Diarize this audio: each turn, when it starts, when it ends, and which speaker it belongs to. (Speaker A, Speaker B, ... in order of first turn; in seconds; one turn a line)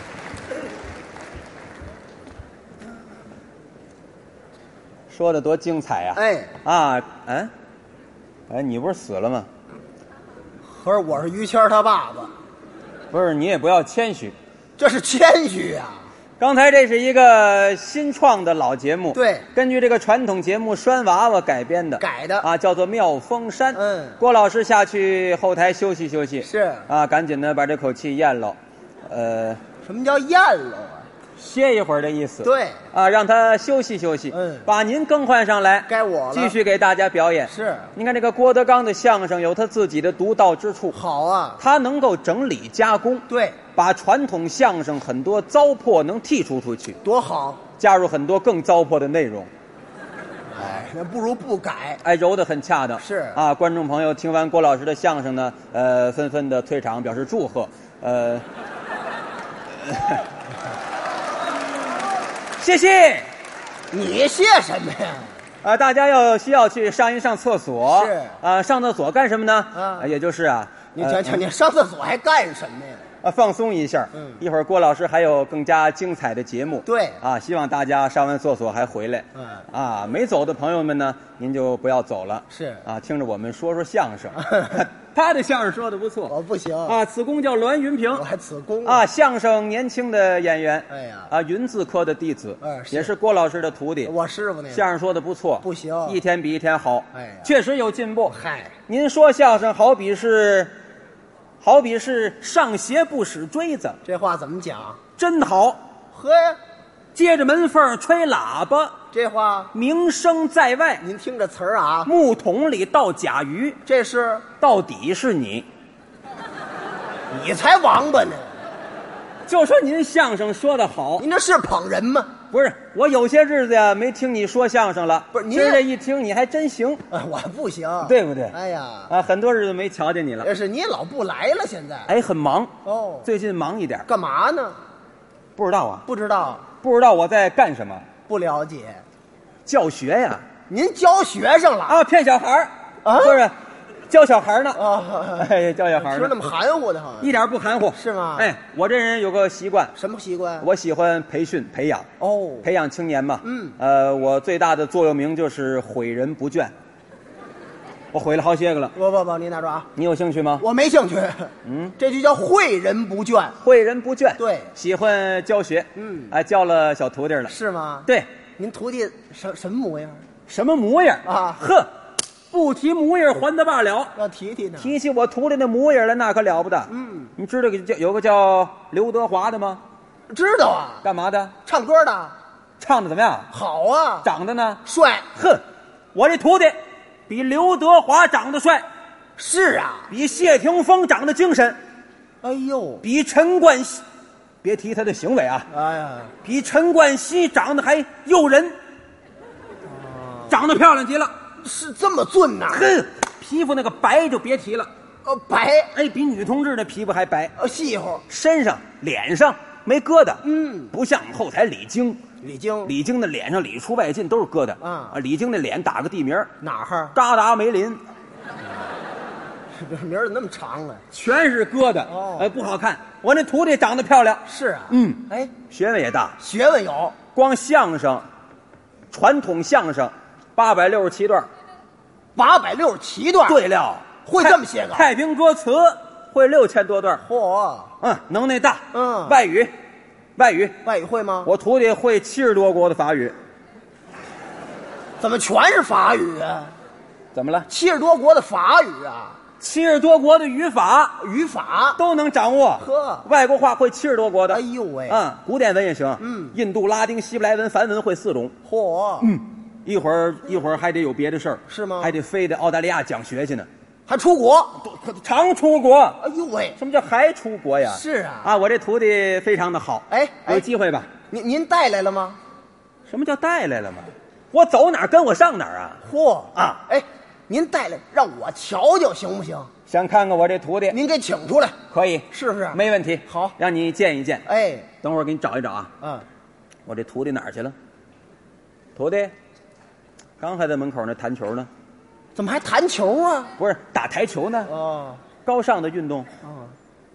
Speaker A: 5.1-7.5
Speaker B: 6.1-6.5
Speaker A: 8.5-9.5
Speaker B: 10.6-12.3
Speaker A: 13.1-14.3
Speaker B: 14.8-16.1
Speaker A: 16.4-29.6
Speaker B: 19.1-19.5
Speaker B: 22.0-22.5
Speaker B: 23.7-24.2
Speaker B: 26.4-26.9
Speaker B: 29.8-31.1
Speaker A: 31.4-41.0
Speaker B: 32.4-32.8
Speaker B: 34.3-34.7
Speaker B: 35.9-36.5
Speaker B: 37.5-37.9
Speaker B: 40.9-41.6
Speaker A: 41.6-47.0
Speaker B: 43.3-43.6
Speaker B: 47.0-47.6
Speaker A: 47.8-49.5
Speaker B: 50.5-52.0
Speaker A: 52.0-58.4
Speaker B: 53.0-53.4
Speaker A: 59.9-60.2
Speaker A: 62.6-63.3
Speaker B: 63.9-65.3
Speaker A: 65.6-71.4
Speaker B: 67.8-68.4
Speaker B: 69.7-70.1
Speaker B: 70.9-73.0
Speaker A: 73.2-86.3
Speaker B: 74.1-74.4
Speaker B: 76.8-77.2
Speaker B: 79.3-79.6
Speaker B: 82.5-82.8
Speaker B: 84.4-84.8
Speaker B: 86.3-87.0
Speaker A: 86.8-88.2
Speaker B: 88.1-89.0
Speaker A: 88.8-94.1
Speaker B: 90.9-91.3
Speaker B: 92.6-93.1
Speaker B: 94.0-94.8
Speaker A: 94.7-98.3
Speaker B: 95.6-96.2
Speaker B: 97.1-97.5
Speaker B: 98.3-98.7
Speaker A: 98.9-100.7
Speaker A: 101.6-104.0
Speaker B: 104.0-105.0
Speaker A: 105.2-105.8
Speaker B: 106.1-106.6
Speaker A: 107.1-109.0
Speaker B: 109.1-109.7
Speaker A: 109.7-111.0
Speaker B: 111.0-112.1
Speaker A: 112.0-113.8
Speaker B: 113.8-114.5
Speaker A: 114.6-115.7
Speaker B: 117.3-118.5
Speaker A: 119.5-121.2
Speaker B: 121.2-122.3
Speaker A: 122.5-127.0
Speaker B: 125.3-125.8
Speaker B: 127.1-129.1
Speaker A: 128.0-128.6
Speaker A: 129.1-130.5
Speaker B: 130.4-132.1
Speaker A: 132.1-132.7
Speaker B: 132.8-133.3
Speaker A: 133.2-134.1
Speaker B: 134.1-134.8
Speaker A: 135.6-136.1
Speaker B: 136.1-136.7
Speaker A: 136.8-138.1
Speaker B: 138.3-139.0
Speaker A: 139.7-140.4
Speaker B: 140.7-142.0
Speaker A: 141.9-143.5
Speaker B: 143.0-143.4
Speaker A: 144.1-144.8
Speaker B: 144.7-147.3
Speaker A: 145.4-146.3
Speaker A: 147.2-149.9
Speaker B: 147.9-148.5
Speaker B: 149.9-150.7
Speaker A: 150.6-152.1
Speaker B: 152.2-152.7
Speaker A: 152.6-156.7
Speaker B: 153.4-153.8
Speaker A: 158.1-158.9
Speaker B: 158.9-159.9
Speaker A: 159.9-160.6
Speaker B: 160.6-163.6
Speaker A: 161.6-161.9
Speaker A: 163.6-167.5
Speaker B: 164.4-164.7
Speaker B: 165.9-166.3
Speaker B: 167.5-170.2
Speaker A: 170.5-171.9
Speaker B: 171.2-171.6
Speaker A: 172.5-174.1
Speaker B: 174.2-174.9
Speaker A: 174.8-179.8
Speaker B: 176.9-177.3
Speaker B: 180.3-181.0
Speaker A: 181.0-181.5
Speaker B: 181.6-182.3
Speaker A: 182.8-183.5
Speaker B: 183.5-184.3
Speaker A: 184.2-184.8
Speaker B: 184.8-185.2
Speaker A: 185.3-185.6
Speaker A: 186.1-186.8
Speaker A: 187.3-188.8
Speaker B: 189.4-190.1
Speaker A: 190.1-191.8
Speaker B: 192.4-193.0
Speaker A: 193.0-194.0
Speaker A: 194.6-195.7
Speaker B: 195.7-196.3
Speaker A: 196.4-198.8
Speaker B: 199.9-200.6
Speaker A: 200.5-201.3
Speaker B: 201.6-202.9
Speaker A: 202.7-204.9
Speaker B: 205.2-205.9
Speaker A: 205.9-207.5
Speaker B: 207.6-208.2
Speaker A: 208.3-212.2
Speaker B: 210.4-210.9
Speaker B: 212.4-212.9
Speaker A: 212.8-216.5
Speaker B: 214.8-215.2
Speaker B: 216.6-217.2
Speaker A: 217.1-218.0
Speaker B: 219.7-221.0
Speaker A: 221.1-226.4
Speaker B: 222.1-222.5
Speaker B: 224.4-225.5
Speaker B: 226.4-227.2
Speaker A: 227.3-228.2
Speaker A: 229.1-231.5
Speaker B: 232.3-233.6
Speaker A: 233.5-237.2
Speaker B: 234.2-235.1
Speaker B: 237.2-237.9
Speaker A: 238.0-239.7
Speaker B: 238.9-239.4
Speaker A: 240.3-240.8
Speaker B: 240.8-241.5
Speaker A: 241.4-243.3
Speaker B: 245.2-246.7
Speaker A: 247.3-247.7
Speaker B: 247.7-249.4
Speaker A: 249.6-251.2
Speaker B: 251.2-252.0
Speaker A: 252.0-258.5
Speaker B: 252.8-253.2
Speaker B: 254.5-255.2
Speaker B: 256.2-256.5
Speaker B: 258.6-259.3
Speaker A: 259.2-263.7
Speaker B: 261.7-262.1
Speaker B: 264.1-264.8
Speaker A: 264.8-266.2
Speaker B: 266.2-266.8
Speaker A: 266.8-271.1
Speaker B: 267.9-268.5
Speaker B: 270.1-270.6
Speaker B: 271.3-272.4
Speaker A: 273.1-276.0
Speaker B: 276.0-279.7
Speaker A: 276.5-276.8
Speaker A: 279.9-281.0
Speaker B: 280.9-281.8
Speaker A: 281.9-284.4
Speaker B: 282.3-283.5
Speaker B: 284.4-284.9
Speaker A: 285.0-285.9
Speaker B: 286.0-286.2
Speaker A: 286.9-287.7
Speaker A: 288.9-289.3
Speaker A: 290.4-291.7
Speaker B: 292.3-293.5
Speaker A: 293.6-294.7
Speaker B: 294.6-295.2
Speaker A: 295.4-296.3
Speaker B: 296.4-296.7